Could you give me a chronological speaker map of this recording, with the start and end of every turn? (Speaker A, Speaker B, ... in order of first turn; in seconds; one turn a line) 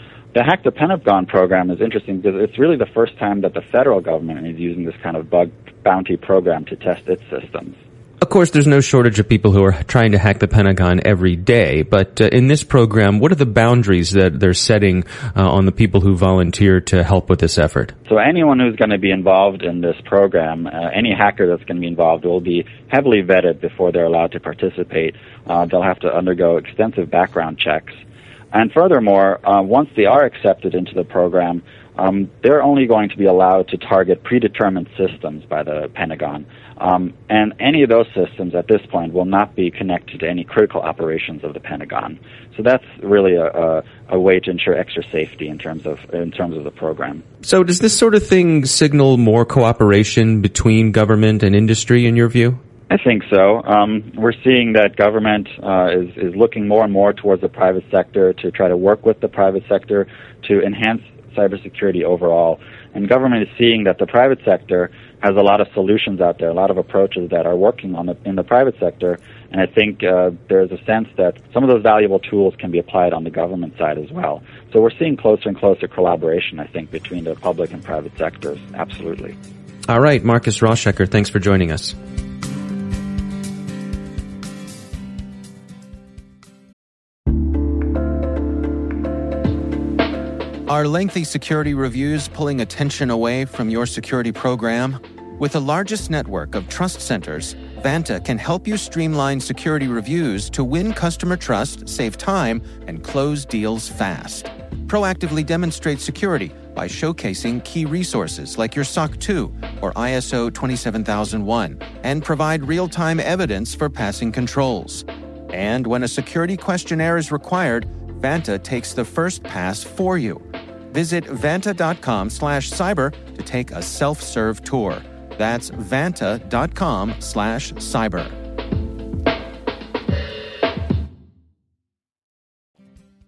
Speaker A: 0.3-7.8
Speaker B: 8.2-17.9
Speaker A: 18.1-27.9
Speaker A: 28.5-47.2
Speaker B: 47.4-52.6
Speaker A: 52.9-79.3
Speaker B: 79.9-81.9
Speaker C: 90.7-128.4